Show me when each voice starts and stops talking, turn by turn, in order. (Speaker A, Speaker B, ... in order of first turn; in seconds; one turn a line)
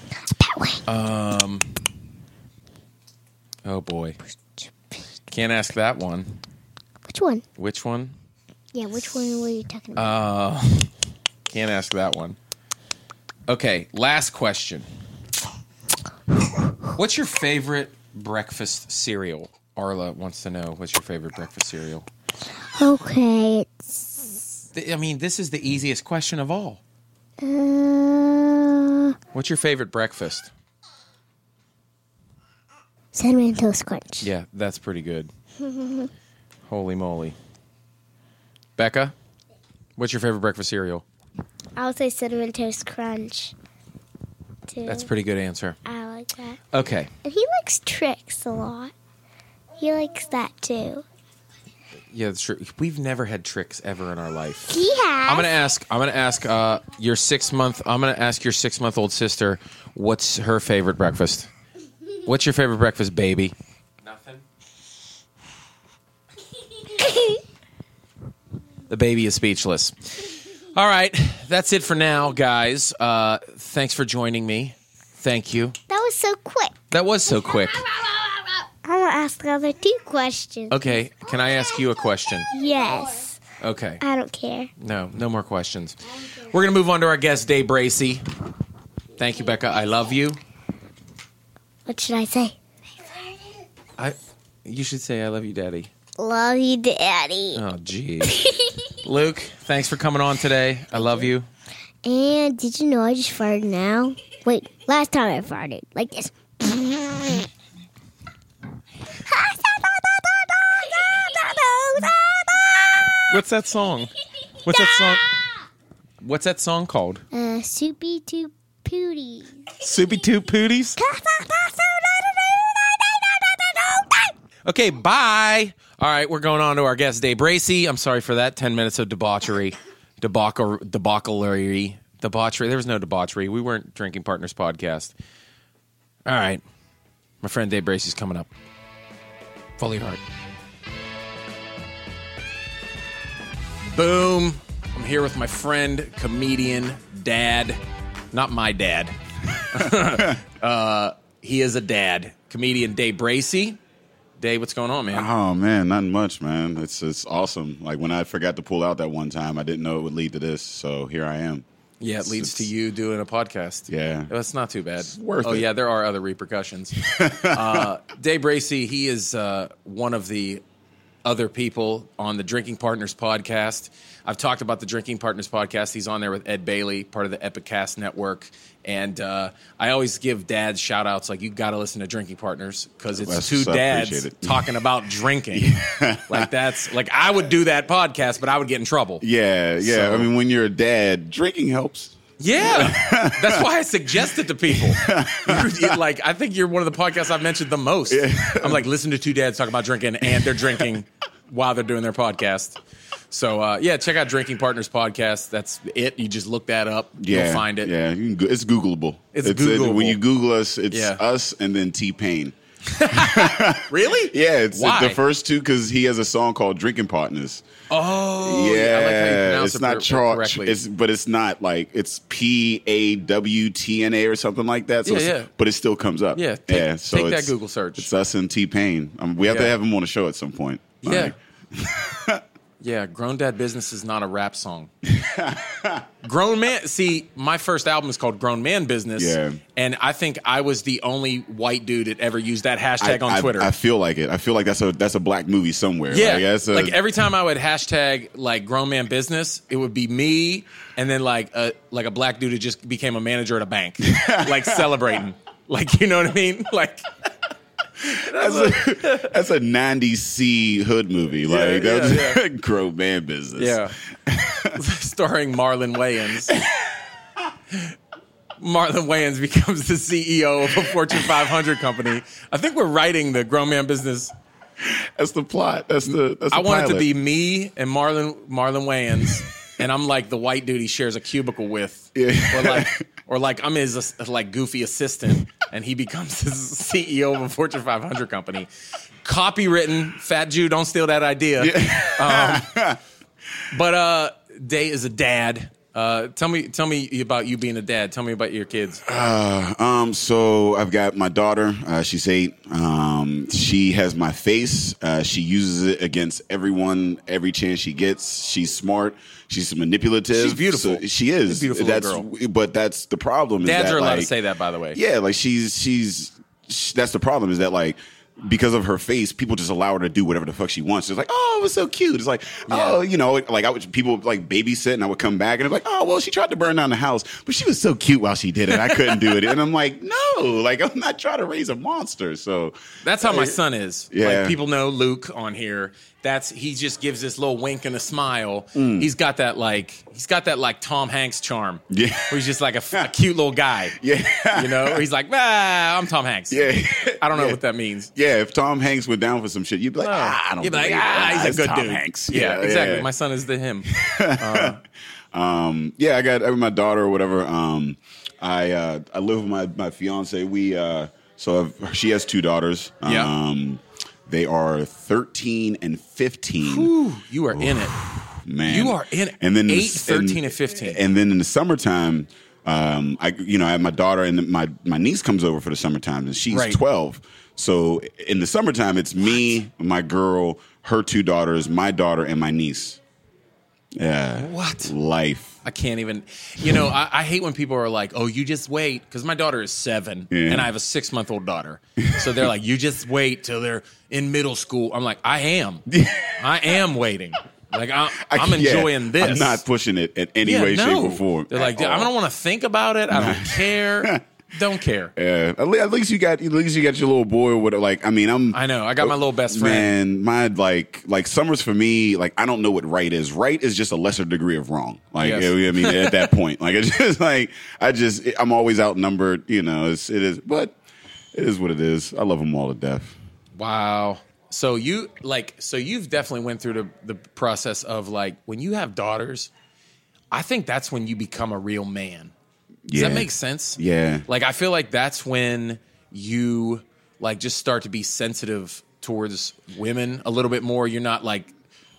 Speaker A: 0.4-0.8
Speaker B: 0.9-1.7
Speaker B: 3.6-4.2
Speaker B: 5.3-6.4
Speaker A: 7.1-7.4
Speaker B: 7.6-8.2
Speaker A: 8.7-10.1
Speaker B: 10.0-10.9
Speaker B: 11.5-12.4
Speaker B: 13.5-14.9
Speaker B: 16.9-22.1
Speaker A: 22.8-24.4
Speaker B: 24.7-26.8
Speaker A: 27.4-29.1
Speaker B: 29.3-30.5
Speaker A: 33.1-34.3
Speaker B: 34.2-35.3
Speaker A: 35.6-36.1
Speaker B: 36.7-37.4
Speaker B: 38.8-39.1
Speaker B: 40.0-41.0
Speaker A: 41.8-43.5
Speaker A: 44.7-45.1
Speaker B: 44.8-45.8
Speaker A: 45.9-46.6
Speaker B: 46.7-47.1
Speaker A: 47.2-48.9
Speaker A: 49.8-51.0
Speaker B: 52.1-61.5
Speaker A: 54.7-55.5
Speaker B: 62.2-64.4
Speaker A: 67.0-67.4
Speaker B: 68.9-75.8
Speaker A: 75.9-76.8
Speaker B: 76.9-77.8
Speaker A: 77.9-80.8
Speaker B: 80.7-82.5
Speaker A: 82.5-83.4
Speaker B: 83.6-84.0
Speaker A: 84.0-84.7
Speaker B: 84.8-88.2
Speaker B: 89.2-90.4
Speaker A: 91.9-92.6
Speaker B: 94.0-95.9
Speaker A: 96.2-97.6
Speaker B: 97.5-98.4
Speaker A: 98.3-98.7
Speaker B: 99.0-101.5
Speaker A: 102.0-107.5
Speaker A: 109.2-113.3
Speaker B: 113.3-114.1
Speaker B: 114.6-115.3
Speaker A: 114.7-115.2
Speaker B: 116.2-117.2
Speaker A: 117.3-119.7
Speaker B: 119.8-121.0
Speaker A: 121.0-124.3
Speaker B: 124.7-135.1
Speaker B: 136.3-136.6
Speaker B: 137.4-138.5
Speaker B: 139.8-140.2
Speaker B: 143.9-147.8
Speaker B: 148.3-153.8
Speaker C: 149.7-150.4
Speaker B: 154.4-155.3
Speaker C: 155.1-161.7
Speaker B: 162.0-170.6
Speaker C: 162.2-162.7
Speaker C: 163.9-164.3
Speaker C: 165.0-165.7
Speaker C: 167.0-167.9
Speaker B: 171.2-185.7
Speaker C: 183.1-184.7
Speaker C: 185.5-186.5
Speaker B: 186.3-189.2
Speaker C: 189.2-193.7
Speaker B: 189.8-190.3
Speaker B: 192.4-202.8
Speaker C: 194.7-196.0
Speaker C: 198.1-198.8
Speaker C: 200.2-200.9
Speaker B: 203.3-207.9
Speaker C: 207.2-217.7
Speaker B: 209.3-210.2
Speaker B: 210.9-211.2
Speaker B: 212.9-215.2
Speaker B: 217.9-220.8
Speaker C: 218.4-232.4
Speaker B: 225.0-225.5
Speaker B: 226.3-228.1
Speaker B: 229.4-229.7
Speaker B: 231.0-231.3
Speaker B: 232.8-234.9
Speaker C: 235.0-236.1
Speaker B: 236.2-243.7
Speaker C: 239.2-239.6
Speaker C: 243.0-247.0
Speaker B: 246.1-257.1
Speaker C: 254.0-255.0
Speaker B: 258.0-259.3
Speaker C: 258.0-264.8
Speaker B: 261.4-262.4
Speaker B: 263.6-264.0
Speaker B: 264.7-266.6
Speaker C: 266.5-267.0
Speaker B: 268.6-274.3
Speaker C: 274.8-277.1
Speaker B: 276.5-288.7
Speaker C: 282.1-283.1
Speaker B: 289.2-292.7
Speaker C: 291.6-293.0
Speaker B: 293.7-299.0
Speaker C: 299.1-314.3
Speaker B: 310.3-312.3
Speaker B: 313.6-315.0
Speaker C: 314.9-333.6
Speaker B: 322.7-323.0
Speaker B: 328.7-329.4
Speaker B: 333.0-344.0
Speaker C: 334.1-334.6
Speaker C: 338.8-339.1
Speaker C: 341.9-342.4
Speaker C: 344.0-345.0
Speaker B: 344.5-346.7
Speaker C: 346.5-347.6
Speaker B: 347.2-348.1
Speaker C: 348.1-353.1
Speaker B: 350.0-354.8
Speaker C: 353.9-354.8
Speaker C: 355.3-366.9
Speaker B: 363.1-363.3
Speaker B: 366.6-368.0
Speaker C: 367.5-383.0
Speaker B: 368.6-371.0
Speaker B: 376.5-376.8
Speaker C: 384.0-385.6
Speaker B: 384.4-384.9
Speaker B: 385.6-395.9
Speaker C: 386.6-386.9
Speaker C: 390.3-390.7
Speaker C: 392.0-392.4
Speaker C: 395.9-396.8
Speaker B: 396.4-399.6
Speaker C: 398.1-402.1
Speaker B: 400.4-405.1
Speaker C: 403.1-404.2
Speaker C: 405.2-420.8
Speaker B: 408.5-410.0
Speaker B: 415.2-416.3
Speaker C: 421.3-423.2
Speaker B: 423.6-429.5
Speaker B: 430.3-432.3
Speaker C: 432.9-434.2
Speaker B: 432.9-441.5